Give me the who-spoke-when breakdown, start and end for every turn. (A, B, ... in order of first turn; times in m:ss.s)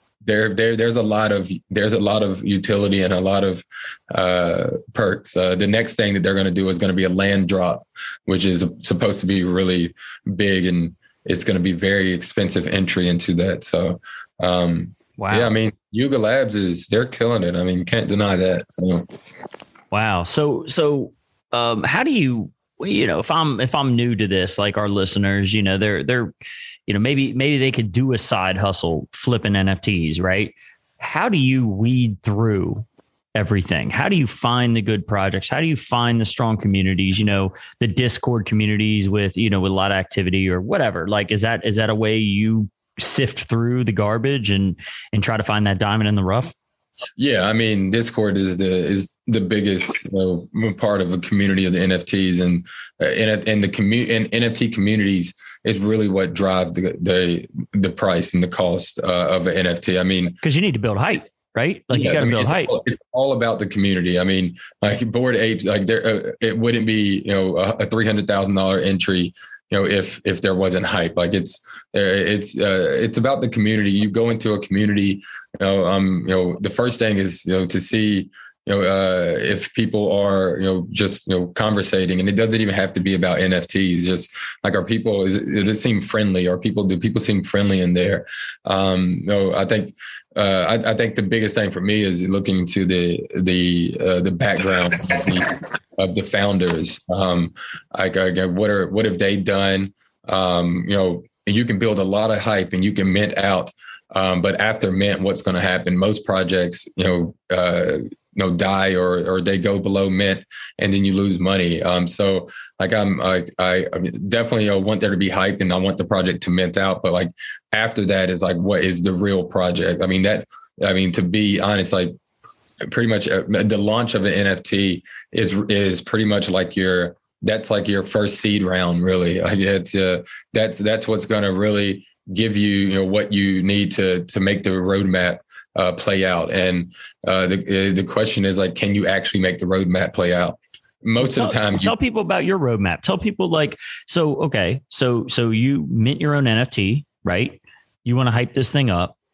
0:00.2-0:19.0 A
0:15.2-0:15.6 B
0:19.9-0:26.3 B
0:26.9-0:46.5 B
0:47.2-1:00.4 A
1:00.4-1:02.8 B
1:01.9-2:02.1 A
2:02.8-2:21.9 A
2:21.2-2:29.1 B